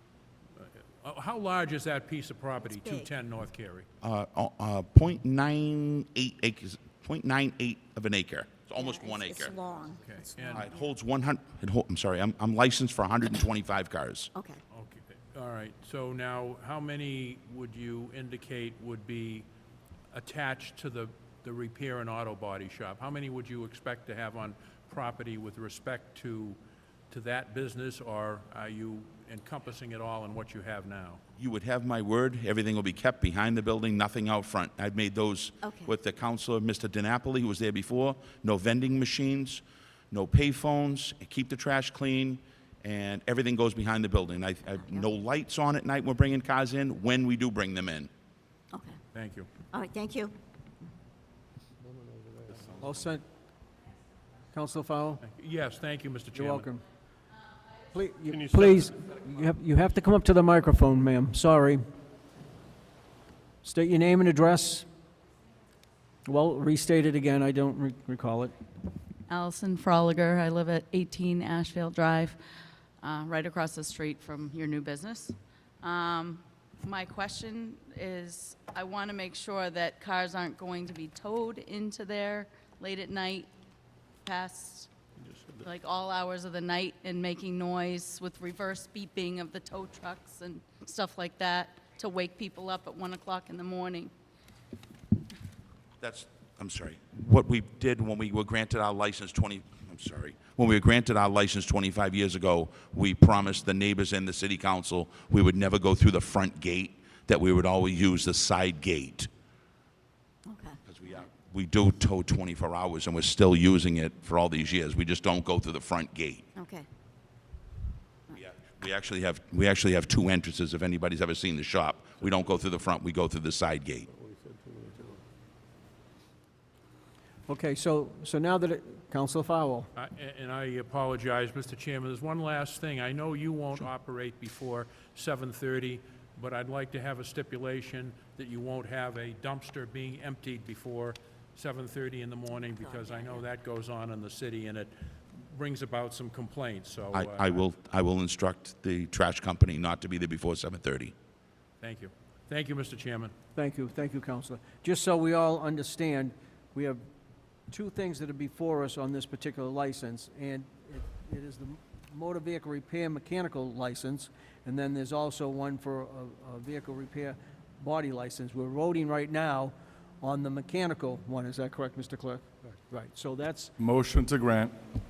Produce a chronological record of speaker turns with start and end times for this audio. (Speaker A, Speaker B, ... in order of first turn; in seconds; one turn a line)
Speaker A: 0.6-3.9
Speaker B: 2.6-3.1
Speaker C: 4.0-9.5
Speaker B: 8.8-10.7
Speaker A: 10.1-10.6
Speaker C: 10.5-14.3
Speaker B: 14.3-14.6
Speaker A: 14.7-19.4
Speaker A: 20.1-26.6
Speaker A: 27.1-31.2
Speaker C: 31.4-48.1
Speaker B: 35.6-35.9
Speaker B: 48.7-49.0
Speaker A: 49.1-49.5
Speaker B: 49.7-50.3
Speaker D: 52.8-53.2
Speaker D: 54.5-55.2
Speaker A: 55.2-56.7
Speaker D: 56.3-56.9
Speaker D: 57.9-61.9
Speaker D: 63.6-64.9
Speaker D: 66.2-68.5
Speaker E: 69.3-72.4
Speaker E: 73.0-83.5
Speaker E: 84.2-84.9
Speaker A: 85.2-85.6
Speaker E: 85.6-94.1
Speaker C: 96.0-109.3
Speaker B: 110.5-110.8
Speaker C: 110.8-116.5
Speaker B: 116.5-116.9
Speaker C: 118.3-124.1
Speaker D: 127.5-129.9
Speaker A: 129.9-147.6
Speaker B: 142.9-143.3
Speaker C: 147.1-151.1
Speaker A: 151.8-153.3
Speaker D: 153.5-157.0
Speaker D: 157.7-173.7